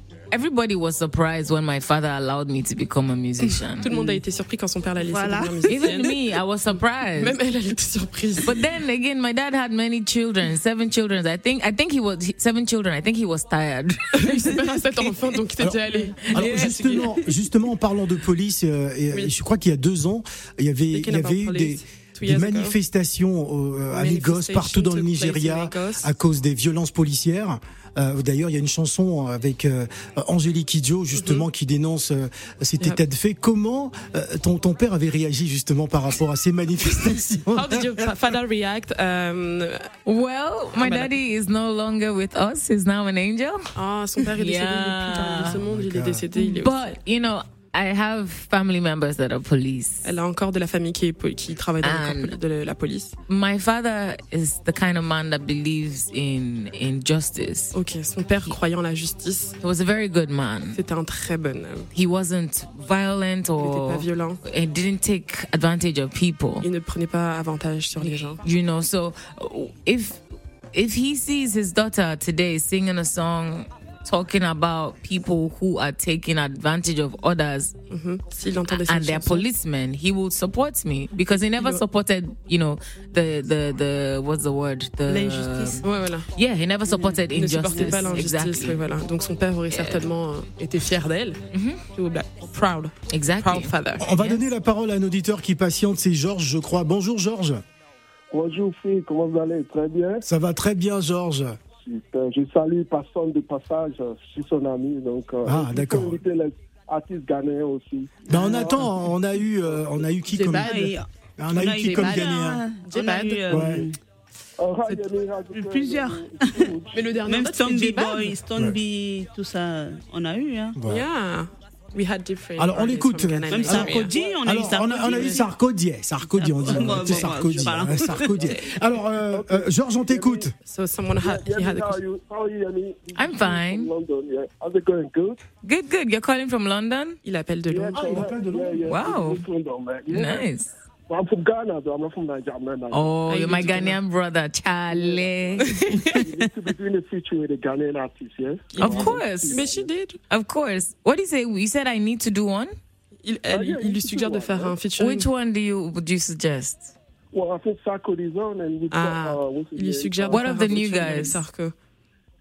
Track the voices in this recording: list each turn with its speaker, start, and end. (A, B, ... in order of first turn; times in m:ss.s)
0:00.3-0:03.9 A
0:03.6-0:06.2 B
0:05.0-0:06.1 C
0:05.7-0:07.4 A
0:07.1-0:08.6 B
0:08.4-0:14.6 A
0:14.1-0:17.4 B
0:15.6-0:38.1 D
0:20.9-0:22.8 B
0:23.9-0:26.1 B
0:31.2-0:31.5 B
0:37.5-0:39.9 B
0:40.1-0:43.7 A
0:40.8-0:41.1 B
0:43.8-0:46.9 B
0:44.2-0:45.6 A
0:45.6-0:46.2 D
0:46.4-0:50.1 A
0:50.0-0:53.1 B
0:51.8-0:52.3 A
0:53.3-0:57.7 A
0:57.7-0:59.6 B
0:59.6-1:00.8 A
1:00.7-1:01.9 B
1:01.9-1:06.7 A
1:03.6-1:04.4 B
1:06.6-1:08.4 B
1:08.0-1:10.2 A
1:10.7-1:17.8 A
1:17.9-1:19.5 B
1:18.7-1:28.8 A
1:21.6-1:21.8 B
1:25.1-1:25.8 C
1:25.8-1:26.3 B
1:26.9-1:34.1 B
1:29.7-1:30.0 A
1:31.5-1:31.8 A
1:33.1-1:34.5 A
1:34.0-1:37.6 D
1:38.3-1:40.2 E
1:40.2-1:41.6 D
1:41.8-1:48.9 E
1:45.4-1:46.2 D
1:48.3-1:52.6 D
1:49.6-1:50.1 E
1:50.4-1:54.0 C
1:50.4-1:50.9 B
1:51.8-1:52.3 B
1:52.9-1:53.8 B
1:53.5-1:53.9 D
1:54.6-1:57.1 E
1:55.5-1:56.7 C
1:56.9-1:58.4 B
1:57.3-2:00.8 C
2:00.8-2:01.1 D
2:00.8-2:04.2 B
2:02.6-2:10.5 D
2:03.5-2:05.5 C
2:06.4-2:08.4 C
2:06.7-2:10.5 E
2:10.6-2:12.0 B
2:11.2-2:15.4 E
2:13.2-2:13.9 A
2:15.6-2:17.2 A
2:17.2-2:18.3 B
2:17.7-2:20.5 E
2:18.0-2:19.0 D
2:18.9-2:19.4 A
2:20.1-2:20.7 A
2:21.1-2:23.6 E
2:22.9-2:25.7 A
2:23.3-2:24.0 B
2:24.9-2:29.9 E
2:25.6-2:26.3 B
2:28.7-2:30.2 B
2:28.8-2:29.6 A
2:30.3-2:32.8 A
2:33.2-2:35.3 B
2:33.5-2:34.8 E
2:35.0-2:36.9 A
2:37.3-2:40.4 E
2:38.9-2:41.7 B
2:40.3-2:41.4 A